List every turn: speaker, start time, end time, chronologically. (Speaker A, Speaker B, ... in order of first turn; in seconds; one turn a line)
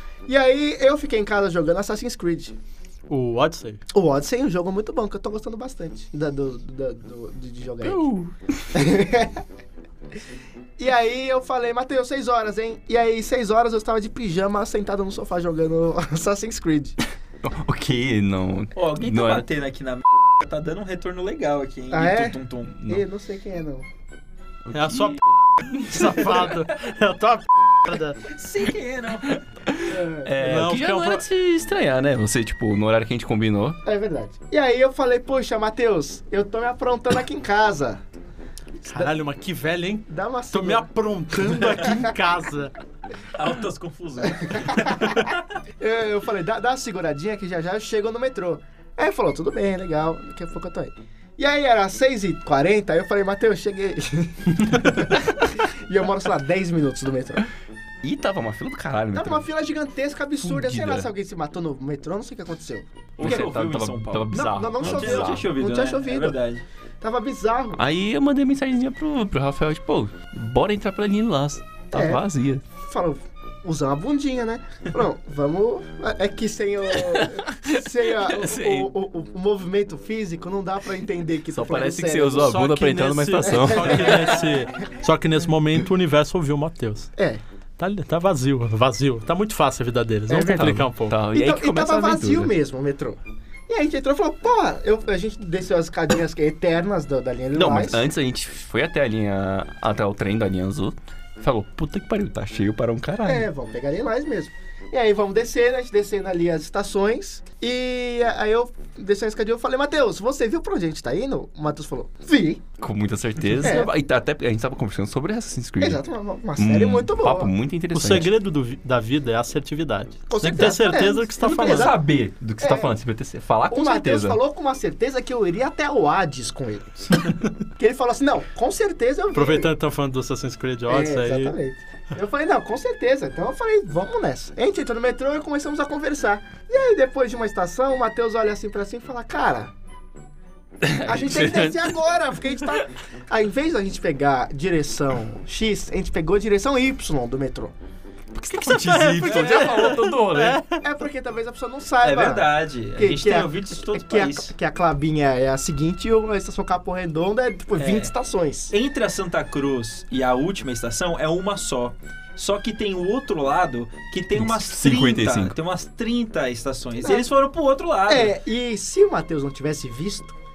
Speaker A: 0.3-2.6
Speaker B: 3.1-3.8
Speaker A: 3.9-8.0
Speaker C: 7.8-8.9
Speaker A: 8.7-9.4
Speaker A: 10.8-17.0
Speaker C: 17.4-19.4
Speaker D: 18.7-22.8
Speaker A: 21.9-23.9
Speaker C: 22.8-23.0
Speaker C: 24.6-26.5
Speaker B: 24.7-25.2
Speaker B: 25.8-28.2
Speaker D: 28.3-29.4
Speaker C: 29.2-33.8
Speaker A: 29.9-30.3
Speaker B: 30.4-31.2
Speaker A: 33.8-38.0
Speaker A: 38.8-39.1
Speaker B: 38.8-42.7
Speaker A: 40.1-40.9
Speaker A: 41.4-42.1
Speaker D: 43.3-45.4
Speaker A: 44.2-45.2
Speaker A: 45.8-57.5
Speaker C: 58.0-59.5
Speaker A: 59.1-63.5
Speaker C: 60.4-61.1
Speaker D: 63.2-66.6
Speaker C: 63.2-65.5
Speaker A: 64.3-66.4
Speaker A: 67.0-67.8
Speaker C: 67.7-72.6
Speaker A: 71.9-72.2
Speaker A: 72.8-82.6
Speaker C: 76.9-78.9
Speaker C: 81.5-84.4
Speaker B: 82.4-87.1
Speaker A: 83.5-84.5
Speaker A: 87.2-87.4
Speaker B: 87.8-91.2
Speaker C: 90.3-92.5
Speaker A: 91.3-98.0
Speaker C: 97.5-103.5
Speaker A: 103.2-112.6
Speaker C: 112.8-116.0
Speaker A: 113.6-113.9
Speaker A: 115.8-117.5
Speaker C: 116.6-118.3
Speaker B: 117.9-122.0
Speaker A: 120.3-122.0
Speaker C: 121.4-124.4
Speaker A: 122.6-122.9
Speaker A: 123.7-127.0
Speaker A: 127.8-129.7
Speaker B: 129.3-131.6
Speaker A: 130.9-139.7
Speaker C: 140.8-142.1
Speaker A: 141.0-147.7
Speaker C: 148.3-150.6
Speaker B: 148.6-150.8
Speaker D: 149.3-149.6
Speaker A: 150.8-158.7
Speaker D: 152.0-154.5
Speaker D: 157.8-158.1
Speaker D: 158.7-168.3
Speaker C: 164.3-165.6
Speaker A: 167.0-167.3
Speaker A: 168.1-170.3